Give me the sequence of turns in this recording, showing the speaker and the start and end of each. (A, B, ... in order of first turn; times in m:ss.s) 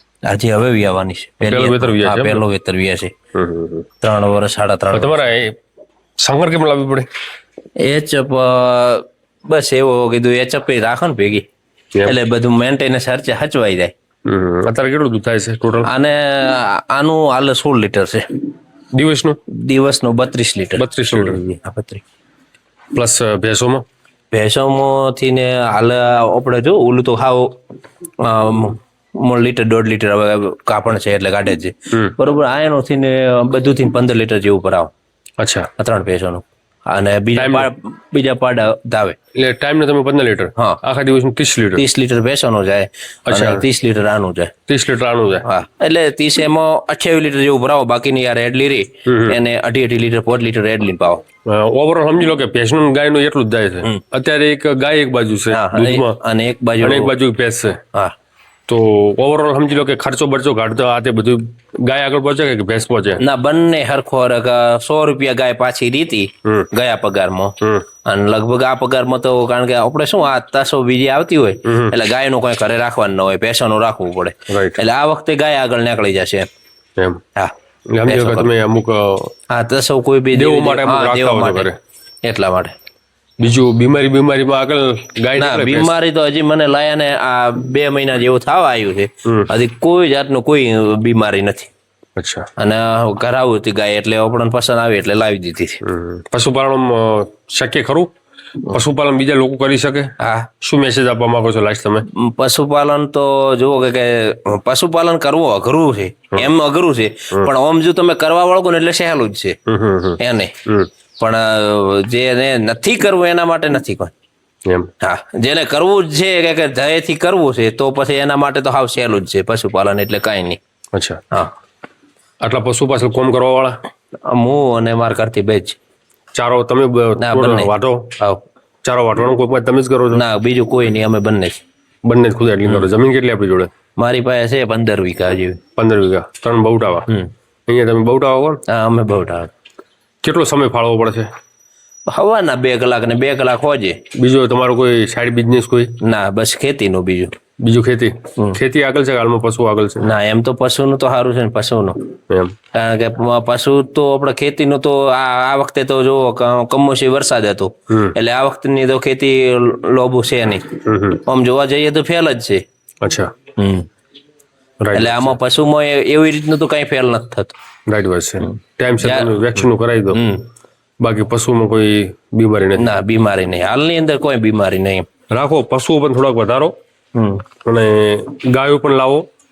0:00.3-0:03.1 A
0:01.4-0:02.4 B
0:03.3-0:03.9 B
0:04.0-0:05.3 A
0:04.9-0:05.5 B
0:06.2-0:07.1 B
0:07.8-0:11.4 A
0:12.0-0:13.9 A
0:14.2-0:15.9 B
0:15.8-0:18.2 A
0:18.9-0:19.4 B
0:19.5-0:22.0 A
0:20.8-0:21.4 B
0:22.9-0:23.8 B
0:24.3-0:27.5 A
0:28.2-0:34.9 A
0:35.4-0:35.7 B
0:35.8-0:39.2 A
0:37.4-0:37.7 B
0:39.4-0:41.8 B
0:40.6-0:40.8 A
0:41.7-0:44.5 A
0:43.3-0:43.6 B
0:44.7-0:45.4 B
0:45.4-0:51.2 A
0:49.1-0:49.4 B
0:51.5-0:56.2 B
0:55.5-0:57.1 A
0:56.8-0:57.8 B
0:58.7-1:03.2 B
1:03.2-1:07.5 A
1:08.0-1:16.5 A
1:14.5-1:14.8 B
1:17.9-1:19.3 B
1:18.1-1:18.5 A
1:19.5-1:21.7 A
1:20.3-1:21.8 B
1:22.2-1:22.7 A
1:23.4-1:25.9 B
1:25.4-1:31.7 A
1:32.2-1:32.5 B
1:32.6-1:35.8 A
1:35.8-1:38.1 B
1:38.6-1:42.0 B
1:40.2-1:40.5 A
1:42.1-1:49.6 A
1:49.7-1:50.9 B
1:50.2-1:50.5 A
1:51.2-1:54.1 A
1:55.0-2:00.6 A
2:00.9-2:01.2 B
2:02.4-2:03.8 B
2:04.3-2:05.8 A
2:06.3-2:08.2 B
2:07.2-2:08.4 A
2:08.8-2:10.2 B
2:10.1-2:11.6 A
2:12.0-2:13.7 B
2:14.0-2:15.6 A
2:15.8-2:17.1 B
2:17.7-2:18.6 B
2:18.7-2:19.5 A
2:20.2-2:21.3 B
2:22.1-2:24.0 A
2:24.2-2:25.9 B
2:26.0-2:27.3 A
2:27.6-2:30.1 B
2:30.0-2:32.1 A
2:32.3-2:32.5 B
2:32.7-2:42.6 A
2:40.8-2:41.2 B
2:43.0-2:43.3 B
2:43.6-2:43.9 A
2:44.8-2:45.3 B
2:44.9-2:47.5 A
2:47.9-2:50.2 B
2:49.0-2:50.4 A
2:51.0-2:52.9 B
2:52.8-2:55.1 A
2:55.3-2:56.7 B
2:57.1-2:57.4 A
2:57.6-2:59.3 B